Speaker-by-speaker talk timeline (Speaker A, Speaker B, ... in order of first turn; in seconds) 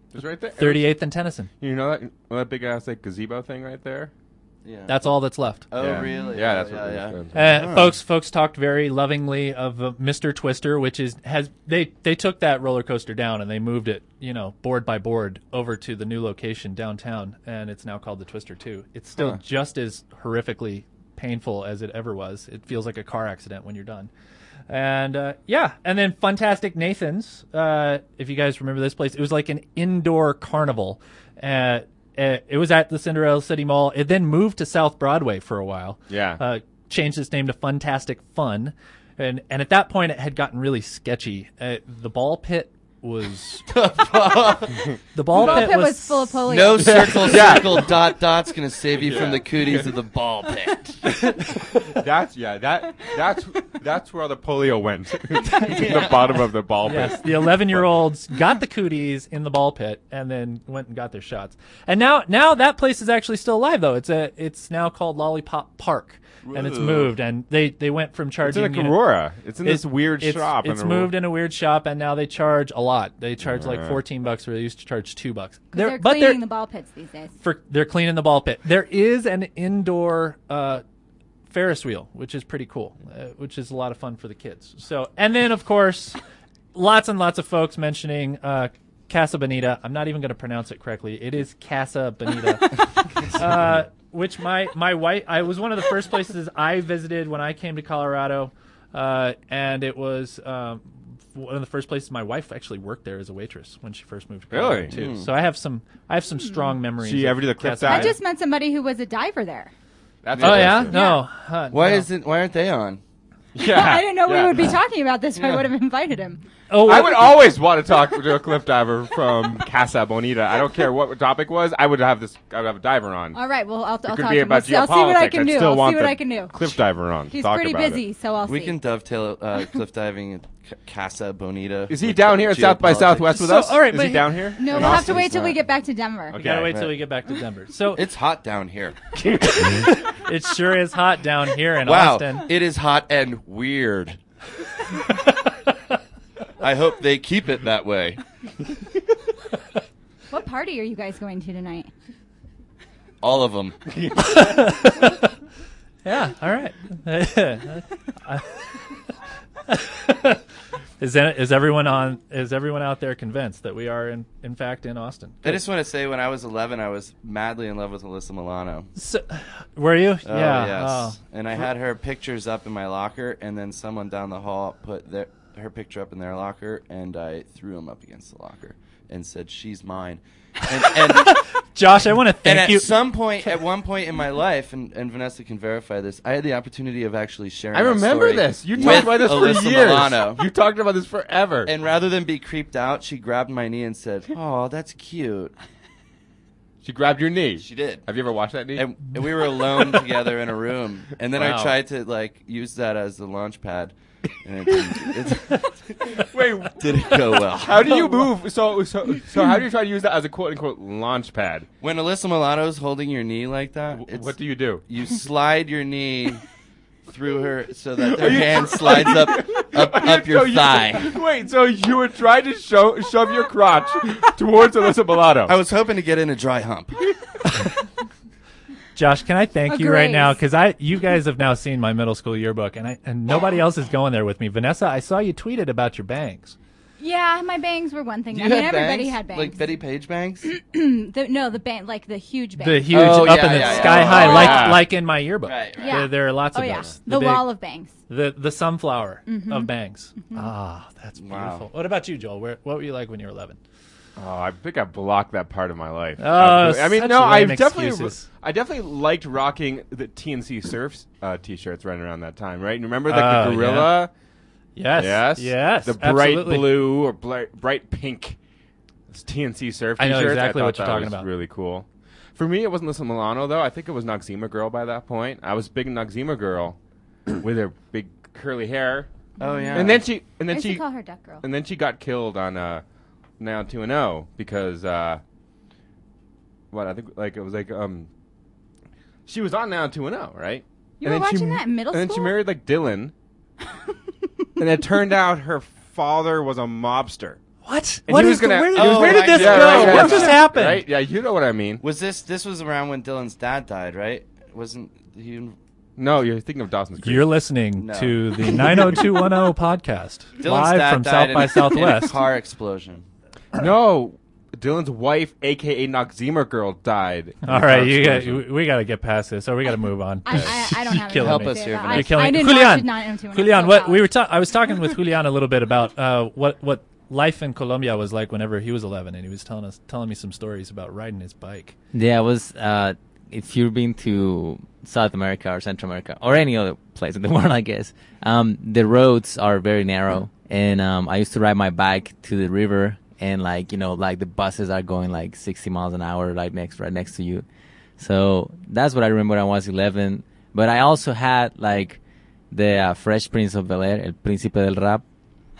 Speaker A: 0.1-0.9, 1.6-4.1, 5.8-7.9, 36.1-36.4, 47.0-48.0, 48.9-49.9, 51.9-57.9, 68.4-71.1, 73.4-74.0, 104.5-105.0, 107.0-108.1, 110.2-110.9, 113.5-114.7, 116.8-123.4, 124.0-128.0, 131.9-135.6, 136.3-136.8, 139.2-139.8, 154.0-154.4, 187.7-191.7, 196.8-198.9, 201.4-201.7, 206.2-206.8, 207.3-211.7, 213.9-214.8, 218.0-225.6, 243.6-244.9, 254.2-264.1, 265.0-268.4, 269.1-276.8, 277.3-279.1, 279.7-280.8, 281.4-282.8, 283.4-285.2, 286.7-288.1, 289.2-293.1, 294.6-297.4, 298.1-301.8, 306.0-307.3, 313.5-318.4
Speaker B: 0.6-1.5, 4.9-5.7, 7.3-24.1, 24.7-43.7, 45.1-46.5, 55.5-56.0, 56.8-69.0, 69.6-76.4, 77.4-80.8, 81.5-86.2, 86.7-108.1, 110.4-112.1, 116.7-117.3, 133.3-134.6, 136.3-138.1, 139.6-142.5, 145.1-145.5, 154.2-155.3, 156.0-158.8, 159.7-160.4, 161.0-165.6, 168.9-171.2, 180.9-183.0, 201.4-201.7, 228.9-236.5, 242.6-247.5, 248.1-253.6, 256.2-258.2, 263.1-264.0, 264.8-266.8, 270.0-271.3, 297.6-300.8, 307.0-312.2, 317.4-331.7
Speaker C: 4.6-4.9, 5.7-7.9, 43.7-44.9, 46.5-51.0, 55.6-56.2, 66.4-67.1, 104.9-105.3, 110.4-110.8, 111.7-113.0, 128.4-133.3, 134.7-135.5, 136.4-137.0, 137.9-139.1, 141.8-144.2, 146.6-148.2, 153.2-153.8, 165.4-168.9, 170.2-181.4, 182.4-190.4, 191.6-195.5, 197.6-198.0, 198.7-208.2, 211.8-214.3, 214.9-216.4, 217.0-221.1, 225.4-227.1, 238.3-240.5, 242.9-244.7, 245.4-246.0, 251.2-251.7, 279.4-280.0, 298.7-300.4, 301.8-305.6, 307.8-309.0, 310.4-313.1, 321.1-322.4
Speaker D: 45.3-47.4, 75.7-77.3, 107.8-109.7, 110.9-111.2, 113.6-116.4, 123.3-126.5, 127.3-128.8, 134.6-136.4, 150.3-151.9, 229.7-230.4, 237.0-239.6, 240.4-244.7, 245.8-248.0, 249.3-249.7, 279.4-281.4, 291.0-292.4, 293.7-293.9, 320.2-324.1
Speaker E: 331.9-347.4, 348.0-352.0, 352.5-355.0